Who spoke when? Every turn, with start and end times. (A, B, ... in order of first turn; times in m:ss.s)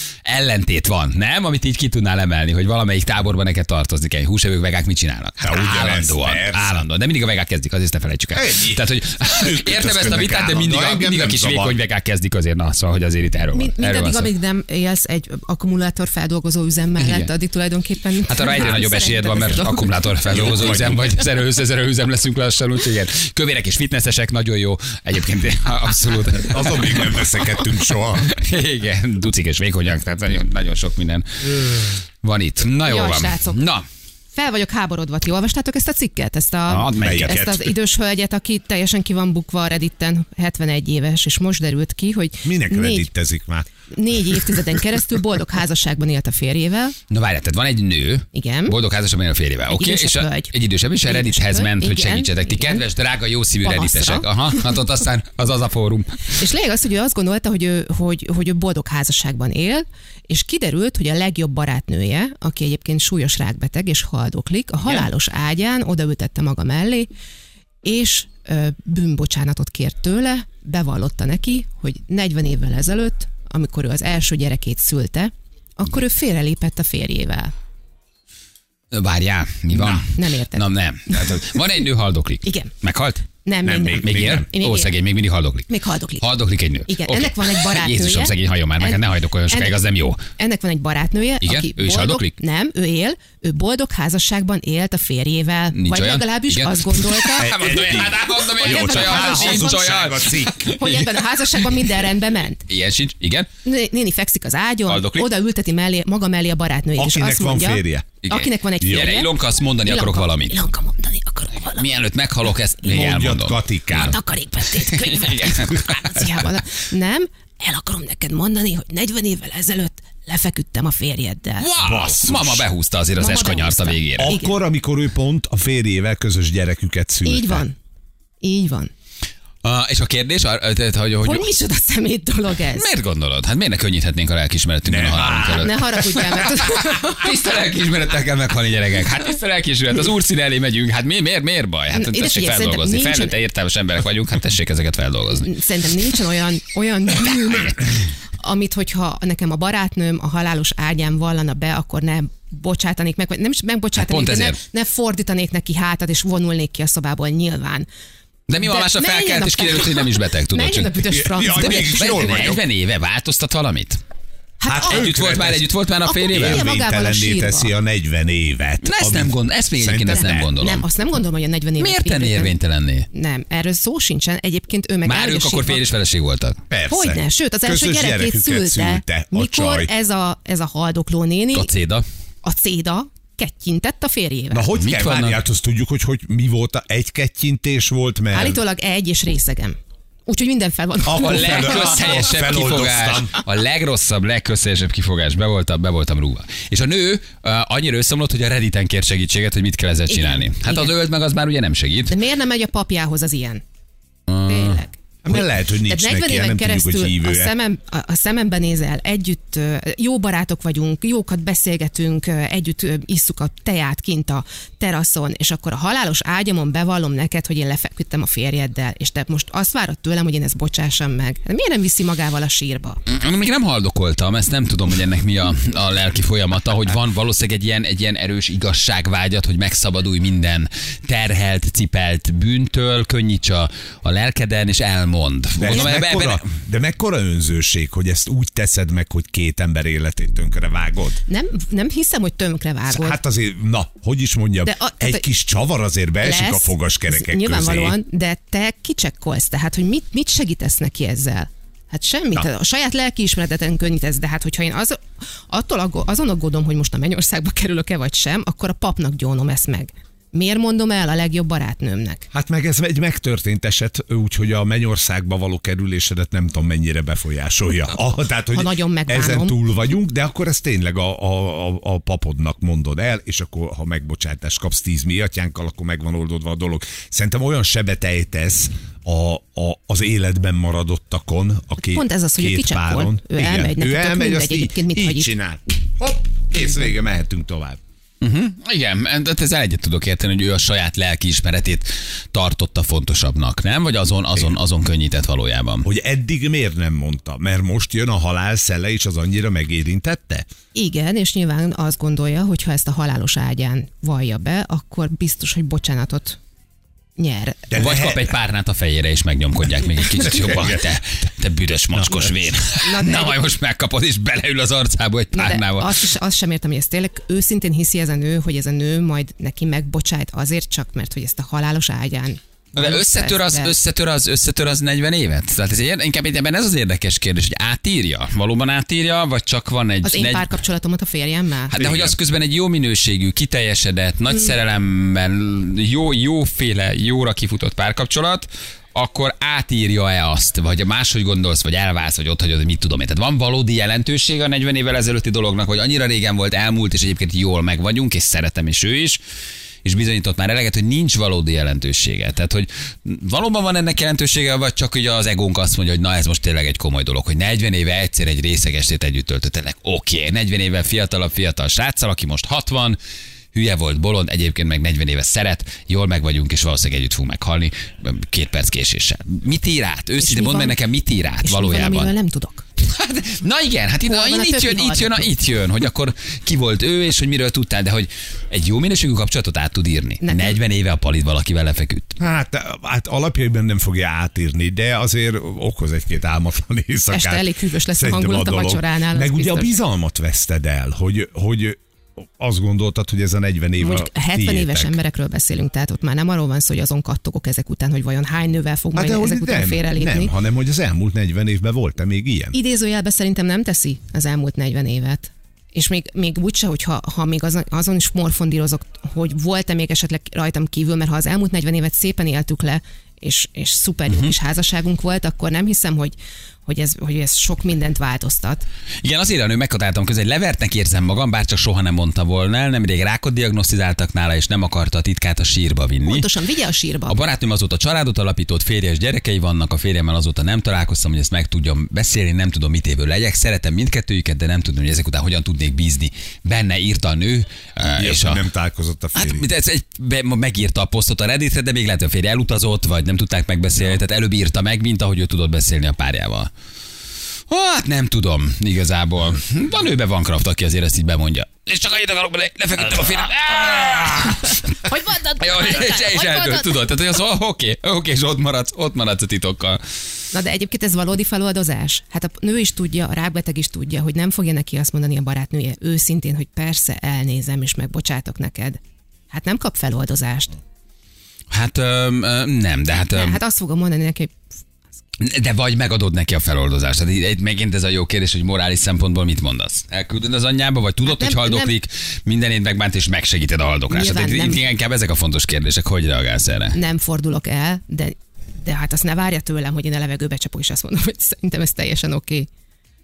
0:00.2-0:14.3 A
0:05.4-0:06.8 B
0:08.3-0:11.8 B
0:13.5-0:20.1 C
0:17.0-0:17.3 A
0:18.2-0:27.4 A
0:20.3-0:21.1 B
0:26.4-0:28.3 B
0:28.2-0:33.8 A
0:32.8-0:33.6 C
0:34.3-0:43.1 C
0:36.7-0:37.4 A
0:36.9-0:37.7 B
0:42.4-0:43.7 B
0:43.9-0:47.0 C
0:47.1-0:56.1 A
0:48.3-0:48.8 C
0:49.7-0:52.8 C
0:53.6-0:54.5 C
0:56.4-1:07.1 C
1:07.8-1:17.5 C
1:18.9-1:23.3 A
1:20.0-1:21.5 C
1:22.4-1:22.7 C
1:23.4-1:25.0 C
1:23.6-1:24.5 B
1:24.0-1:25.7 A
1:25.7-1:26.2 C
1:26.2-1:30.2 A
1:26.9-1:37.9 C
1:31.4-1:32.3 A
1:35.7-1:41.9 A
1:37.4-1:40.8 B
1:38.4-1:40.0 C
1:40.7-1:42.6 C
1:42.7-1:43.5 A
1:43.6-1:51.9 C
1:44.8-1:45.3 A
1:47.0-1:48.2 B
1:48.2-1:50.6 A
1:48.8-1:49.2 B
1:51.6-1:54.1 A
1:52.8-1:54.2 B
1:53.9-2:01.7 C
1:54.7-1:56.6 A
2:01.6-2:04.4 A
2:01.8-2:02.6 B
2:03.2-2:04.5 C
2:04.2-2:07.6 B
2:07.2-2:07.7 C
2:08.4-2:08.9 C
2:09.6-2:11.5 A
2:11.2-2:12.8 C
2:12.7-2:25.5 A
2:14.9-2:16.4 B
2:15.6-2:17.6 C
2:21.9-2:23.4 C
2:25.4-2:27.9 C
2:27.3-2:27.9 A
2:28.4-2:37.9 C
2:33.9-2:34.6 A
2:38.5-2:40.9 A
2:38.5-2:42.4 C
2:41.1-2:42.6 B
2:41.6-2:44.0 A
2:44.6-2:45.1 C
2:44.7-2:45.7 B
2:44.9-2:46.6 A
2:46.0-2:47.7 C
2:46.3-2:50.5 B
2:48.8-2:50.8 A
2:50.1-2:52.5 C
2:51.8-2:53.1 A
2:53.1-2:55.9 C
2:55.0-2:56.6 A
2:56.7-2:59.9 B
2:56.9-3:01.7 C
3:01.5-3:02.0 A
3:02.4-3:04.7 C
3:04.5-3:08.6 B
3:04.7-3:05.4 A
3:08.3-3:12.5 C
3:11.0-3:13.4 B
3:11.1-3:22.2 A
3:20.1-3:20.9 C
3:22.1-3:23.6 C
3:24.3-3:24.8 A
3:24.4-3:43.0 C
3:25.2-3:27.5 B
3:43.0-3:56.5 A
3:55.6-4:01.2 B
4:01.3-4:03.2 C
4:02.9-4:08.0 B
4:04.6-4:05.3 C
4:06.2-4:22.2 C
4:22.3-4:47.8 B
4:28.5-4:29.6 C
4:41.8-4:45.3 C
4:48.2-4:55.9 A
4:55.8-5:00.5 B
5:00.7-5:06.4 C
5:07.2-5:07.7 C
5:07.7-5:08.3 B
5:07.7-5:16.0 A
5:11.9-5:12.4 B
5:12.8-5:13.4 C
5:15.3-5:23.7 C
5:22.7-5:30.5 A
5:30.0-5:31.8 C
5:31.7-5:49.2 A
5:31.7-5:32.2 B
5:49.8-6:03.0 A
6:03.5-6:12.1 A
6:10.2-6:10.8 C
6:11.4-6:12.6 C
6:12.8-6:22.1 A
6:14.0-6:15.3 C
6:20.2-6:20.6 C
6:22.2-6:31.8 B
6:27.1-6:29.7 C
6:32.4-6:35.0 B
6:33.8-6:40.3 C
6:39.0-6:42.5 B
6:42.5-6:58.6 C
6:59.0-7:06.3 A
7:06.0-7:07.2 C
7:07.1-7:18.4 A
7:18.0-7:19.4 B
7:19.1-7:26.5 A
7:27.5-7:39.8 A
7:34.7-7:36.8 C
7:40.3-7:48.8 C
7:49.3-7:50.6 C
7:51.5-7:53.4 A
7:53.1-7:54.4 C
7:55.2-8:06.8 A
8:01.0-8:01.8 C
8:03.9-8:04.7 C
8:06.7-8:12.5 C